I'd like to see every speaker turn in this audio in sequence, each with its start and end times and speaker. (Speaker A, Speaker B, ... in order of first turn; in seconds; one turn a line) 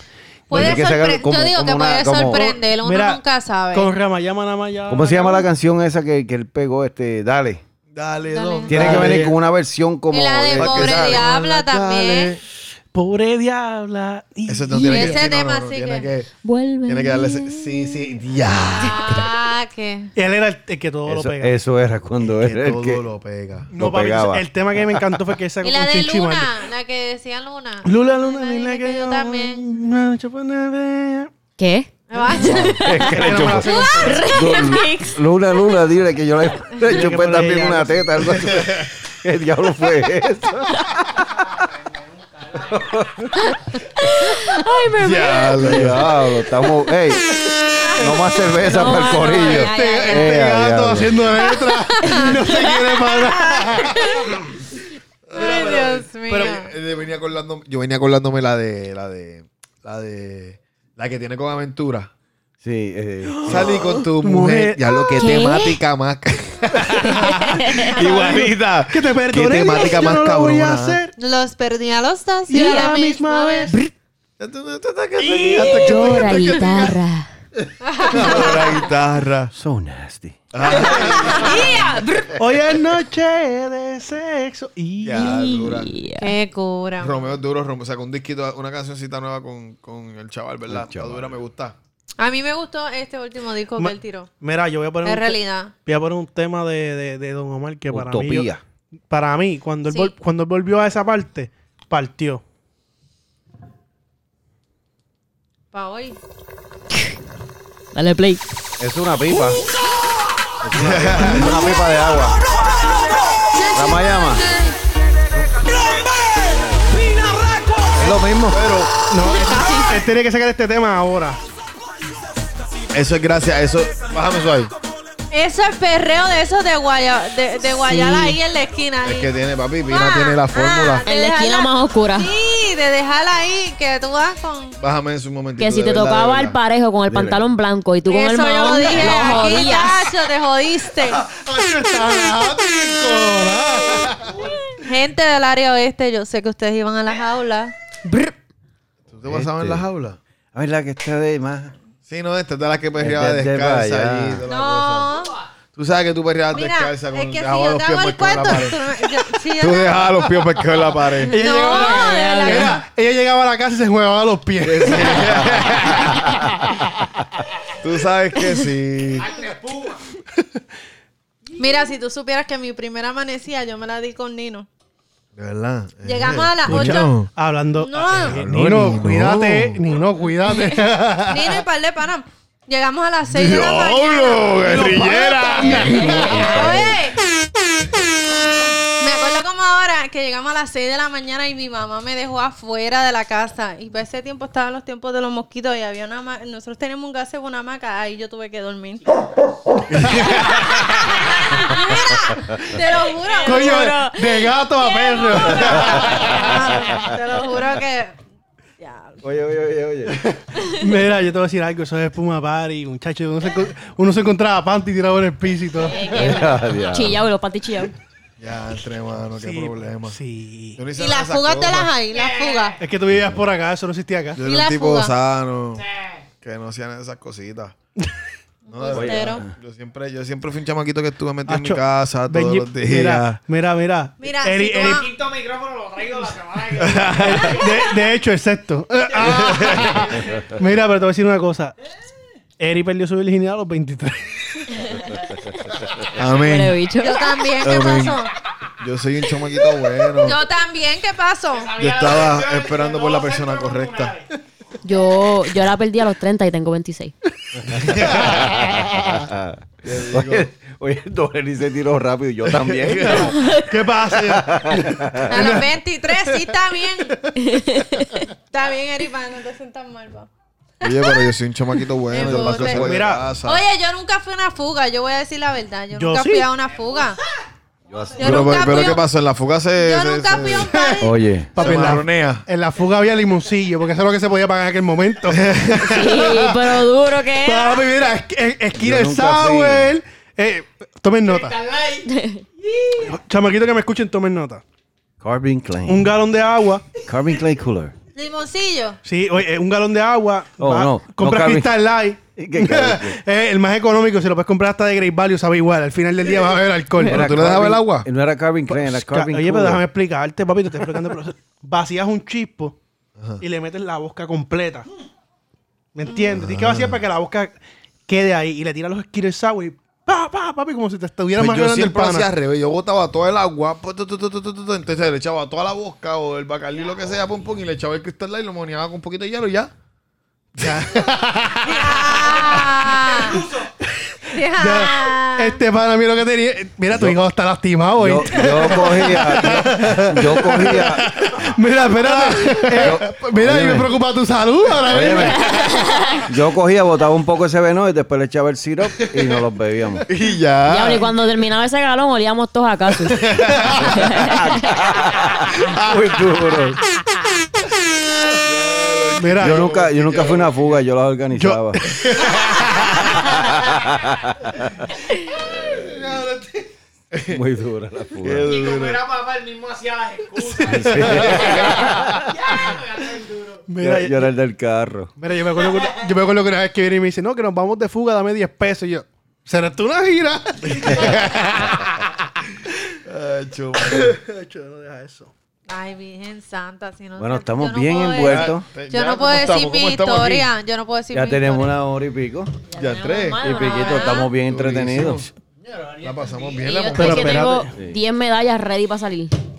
Speaker A: 0.5-3.9
Speaker B: 0.5-2.5
Speaker C: 2.8-3.2
Speaker C: 3.7-5.5
Speaker B: 4.9-7.6
Speaker D: 7.9-9.3
Speaker A: 8.3-9.0
Speaker B: 8.7-11.2
Speaker C: 8.7-9.3
Speaker A: 10.1-12.3
Speaker D: 10.5-12.4
Speaker C: 12.9-15.2
Speaker D: 14.5-16.3
Speaker A: 14.8-16.1
Speaker E: 16.4-18.2
Speaker D: 16.8-19.3
Speaker A: 18.8-20.1
Speaker C: 20.1-21.5
Speaker B: 21.1-23.0
Speaker D: 22.2-23.7
Speaker C: 23.7-26.5
Speaker B: 23.7-25.0
Speaker A: 25.6-29.6
Speaker C: 27.8-31.3
Speaker E: 31.6-33.1
Speaker A: 32.1-32.6
Speaker B: 32.4-41.2
Speaker D: 32.5-32.8
Speaker C: 32.9-34.3
Speaker E: 33.9-35.2
Speaker C: 36.8-38.5
Speaker D: 38.4-38.9
Speaker F: 41.3-43.1
Speaker B: 42.7-43.3
Speaker E: 43.4-45.7
Speaker D: 45.0-46.1
Speaker B: 45.6-51.5
Speaker A: 47.8-48.2
Speaker E: 48.6-50.0
Speaker A: 49.3-50.2
Speaker C: 49.7-54.1
Speaker A: 51.9-52.4
Speaker E: 52.2-52.9
Speaker A: 53.1-54.5
Speaker D: 55.3-62.1
Speaker A: 55.3-56.7
Speaker C: 56.3-56.5
Speaker B: 62.6-63.8
Speaker D: 63.4-71.0
Speaker C: 64.2-65.1
Speaker E: 65.2-65.8
Speaker E: 67.1-67.9
Speaker C: 68.0-68.3
Speaker C: 68.9-71.1
Speaker A: 71.2-73.7
Speaker C: 72.5-73.9
Speaker E: 72.5-72.8
Speaker D: 74.4-76.9
Speaker C: 75.2-76.8
Speaker E: 75.6-77.3
Speaker A: 77.8-78.7
Speaker D: 78.1-79.5
Speaker B: 79.5-80.4
Speaker D: 80.5-81.9
Speaker A: 80.8-82.3
Speaker B: 81.0-81.4
Speaker C: 82.3-85.5
Speaker D: 85.0-85.9
Speaker E: 85.2-86.3
Speaker A: 86.2-87.2
Speaker D: 87.0-91.8
Speaker B: 90.7-91.3
Speaker A: 92.2-94.3
Speaker C: 93.8-98.5
Speaker A: 95.0-95.7
Speaker B: 97.9-98.6
Speaker C: 99.1-102.4
Speaker A: 99.9-100.1
Speaker A: 105.7-106.2
Speaker E: 107.9-108.4
Speaker B: 108.8-109.6
Speaker B: 110.6-112.4
Speaker D: 110.7-111.6
Speaker A: 113.7-114.7
Speaker B: 113.7-114.5
Speaker B: 116.5-116.9
Speaker B: 117.9-118.6
Speaker D: 118.0-118.9
Speaker C: 119.1-121.4
Speaker A: 119.4-119.8
Speaker D: 122.9-124.7
Speaker A: 125.3-129.3
Speaker E: 127.9-128.4
Speaker D: 129.0-131.0
Speaker A: 129.9-134.8
Speaker E: 131.0-132.3
Speaker D: 134.8-136.6
Speaker E: 135.6-140.1
Speaker B: 137.1-137.4
Speaker A: 138.1-141.2
Speaker C: 141.1-144.3
Speaker A: 144.8-147.7
Speaker D: 149.1-150.2
Speaker B: 149.2-149.8
Speaker B: 150.5-151.7
Speaker D: 152.1-155.1
Speaker B: 153.0-154.4
Speaker A: 154.5-155.4
Speaker D: 155.7-158.8
Speaker A: 156.5-160.1
Speaker D: 159.6-161.4
Speaker C: 161.3-165.8
Speaker A: 161.4-162.8
Speaker E: 161.7-162.8
Speaker D: 164.6-166.2
Speaker D: 167.8-169.3
Speaker F: 169.1-170.0
Speaker A: 171.6-174.7
Speaker D: 175.3-177.3
Speaker A: 176.0-177.1
Speaker C: 176.7-181.6
Speaker A: 177.8-178.4
Speaker D: 178.2-179.8
Speaker A: 181.2-184.7
Speaker D: 183.3-186.7
Speaker C: 184.6-185.9
Speaker A: 185.4-187.2
Speaker B: 185.7-187.0
Speaker A: 189.0-199.1
Speaker D: 199.9-201.0
Speaker A: 200.8-204.0
Speaker E: 203.4-204.2
Speaker C: 203.4-205.9
Speaker A: 204.8-208.2
Speaker B: 205.6-207.1
Speaker A: 208.8-209.2
Speaker B: 209.2-210.4
Speaker C: 210.7-216.1
Speaker E: 215.9-217.9
Speaker B: 216.1-217.2
Speaker D: 218.4-220.2
Speaker C: 219.3-220.8
Speaker D: 220.8-221.9
Speaker A: 221.0-222.8
Speaker F: 222.1-222.8
Speaker C: 222.8-224.4
Speaker D: 224.3-225.8
Speaker A: 224.4-225.1
Speaker F: 225.7-226.3
Speaker D: 226.4-227.7
Speaker D: 228.7-233.4
Speaker A: 228.7-229.4
Speaker B: 228.9-229.5
Speaker C: 231.5-235.0
Speaker A: 234.2-235.1
Speaker F: 234.8-238.1
Speaker D: 236.8-237.6
Speaker C: 237.1-241.7
Speaker D: 239.2-240.0
Speaker F: 239.3-240.5
Speaker C: 242.6-244.8
Speaker D: 246.2-246.8
Speaker E: 246.3-247.3
Speaker A: 247.0-248.3
Speaker D: 247.6-248.2
Speaker D: 248.8-250.4
Speaker A: 250.2-251.7
Speaker F: 251.5-254.2
Speaker D: 251.8-254.2
Speaker E: 254.8-257.1
Speaker B: 257.6-263.4
Speaker D: 257.7-258.4
Speaker D: 259.8-260.5
Speaker D: 262.5-263.3
Speaker C: 262.9-265.7
Speaker E: 263.3-263.6
Speaker B: 264.1-265.6
Speaker A: 265.3-267.2
Speaker C: 266.2-266.5
Speaker C: 267.2-268.2
Speaker E: 267.4-268.2
Speaker A: 268.5-270.3
Speaker D: 270.8-273.6
Speaker A: 270.8-271.3
Speaker A: 272.1-272.8
Speaker C: 272.6-273.2
Speaker A: 273.4-277.2
Speaker C: 275.9-276.5
Speaker F: 277.9-278.8
Speaker B: 277.9-278.5
Speaker A: 278.2-279.0
Speaker D: 278.2-280.8
Speaker A: 279.8-281.2
Speaker C: 280.7-281.0
Speaker B: 281.0-281.6
Speaker C: 281.5-286.6
Speaker D: 281.6-282.4
Speaker D: 285.3-286.3
Speaker E: 285.9-287.8
Speaker C: 287.4-291.5
Speaker B: 288.8-289.9
Speaker F: 291.2-293.1
Speaker E: 292.1-292.4
Speaker C: 293.0-294.6
Speaker B: 295.2-296.1
Speaker C: 295.9-296.9
Speaker B: 297.1-297.9
Speaker A: 298.1-299.0
Speaker C: 299.0-307.2
Speaker B: 300.6-301.8
Speaker B: 302.4-303.2
Speaker B: 307.1-309.8
Speaker D: 307.1-308.1
Speaker C: 308.7-312.8
Speaker D: 313.2-313.4
Speaker C: 313.4-314.9
Speaker C: 315.9-322.3
Speaker D: 316.3-317.0
Speaker D: 321.4-329.7
Speaker D: 330.6-331.2
Speaker C: 330.6-331.8
Speaker A: 331.6-333.4
Speaker C: 332.8-345.7
Speaker F: 333.2-333.7
Speaker A: 334.3-335.6
Speaker B: 336.9-337.2
Speaker B: 338.0-341.6
Speaker D: 342.1-343.0
Speaker B: 342.7-343.9
Speaker B: 344.9-345.5
Speaker E: 345.4-346.2
Speaker B: 346.2-350.1
Speaker D: 350.1-351.1
Speaker E: 350.7-354.6
Speaker D: 353.1-354.3
Speaker B: 353.9-356.8
Speaker D: 355.5-356.4
Speaker D: 358.3-360.7
Speaker C: 359.1-359.7
Speaker B: 359.4-361.8
Speaker C: 361.3-362.4
Speaker D: 361.9-363.3
Speaker B: 363.1-364.8
Speaker B: 365.5-365.8
Speaker D: 367.1-367.4
Speaker B: 367.2-368.5
Speaker D: 368.2-369.0
Speaker F: 368.4-373.6
Speaker C: 370.5-371.4
Speaker B: 370.6-372.3
Speaker D: 371.4-371.7
Speaker C: 373.7-374.3
Speaker B: 373.8-375.1
Speaker C: 375.2-381.8
Speaker F: 375.5-376.1
Speaker D: 380.7-381.8
Speaker D: 383.0-384.2
Speaker C: 383.8-385.3
Speaker A: 385.7-391.8
Speaker B: 387.2-388.7
Speaker D: 388.2-390.5
Speaker B: 391.1-392.5
Speaker E: 392.7-394.3
Speaker D: 392.7-393.6
Speaker B: 393.4-395.3
Speaker A: 393.7-394.2
Speaker D: 394.2-395.3
Speaker F: 395.6-396.9
Speaker D: 396.0-397.4
Speaker A: 396.6-397.1
Speaker E: 396.8-399.3
Speaker C: 396.9-397.7